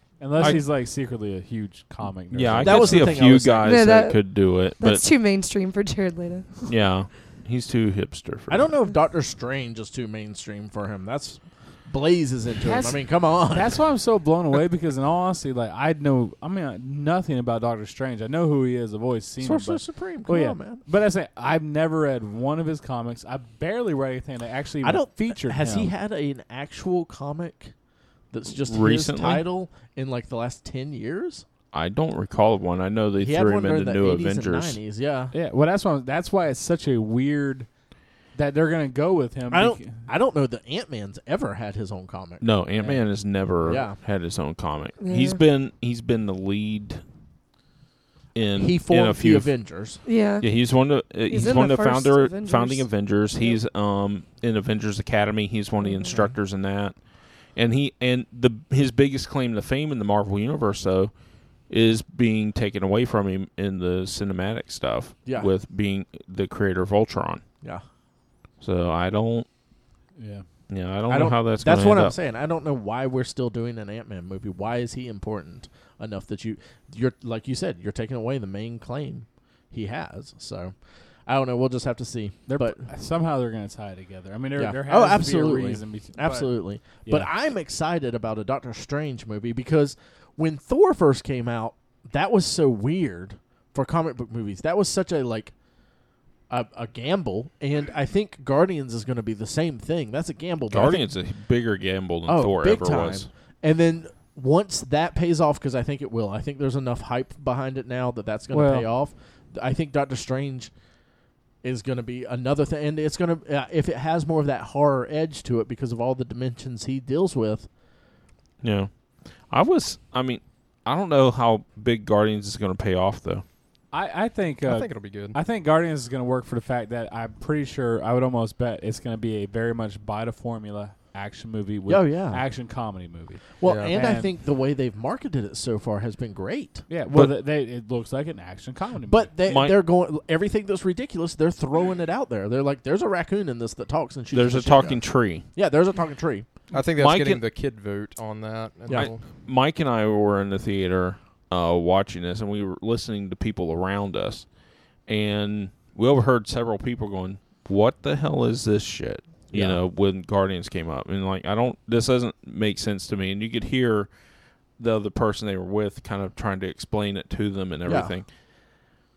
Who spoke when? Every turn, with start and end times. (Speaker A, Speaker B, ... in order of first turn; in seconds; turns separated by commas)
Speaker A: 0.2-3.2, Speaker B: 2.3-5.0, Speaker C: 2.6-3.8, Speaker D: 3.6-6.7, Speaker B: 6.7-8.7, Speaker C: 8.5-13.8, Speaker A: 12.6-25.9, Speaker C: 19.4-20.8, Speaker C: 24.8-27.7, Speaker C: 28.3-31.4, Speaker B: 28.5-29.4, Speaker B: 31.7-34.8, Speaker C: 33.2-35.3, Speaker A: 35.3-37.7, Speaker A: 38.4-40.1, Speaker C: 39.5-42.5, Speaker B: 42.4-47.0, Speaker C: 43.6-44.0, Speaker D: 45.0-45.4, Speaker B: 48.3-49.6, Speaker C: 48.6-50.0, Speaker D: 50.0-50.5, Speaker B: 50.4-57.0, Speaker D: 51.3-53.6, Speaker D: 55.8-56.1, Speaker B: 57.5-61.1, Speaker B: 61.7-67.4, Speaker C: 65.2-65.5, Speaker B: 68.6-69.5, Speaker A: 70.2-70.4, Speaker B: 70.7-72.2, Speaker C: 71.1-80.7, Speaker C: 81.3-82.8, Speaker A: 82.5-87.3, Speaker C: 84.6-95.5, Speaker C: 96.5-101.1, Speaker B: 100.7-103.3, Speaker C: 102.3-110.7, Speaker A: 108.5-108.9, Speaker C: 111.6-117.7, Speaker B: 118.6-123.4, Speaker A: 123.9-134.3, Speaker E: 124.6-125.4, Speaker C: 131.9-132.4, Speaker C: 133.6-136.9, Speaker E: 133.6-133.9, Speaker A: 136.9-139.3, Speaker C: 139.1-146.6, Speaker B: 139.5-139.8, Speaker B: 144.3-145.5, Speaker E: 146.7-149.2, Speaker B: 147.0-147.4, Speaker B: 148.9-154.5, Speaker B: 155.1-164.1, Speaker C: 159.5-159.8, Speaker B: 164.8-168.3, Speaker C: 167.9-168.2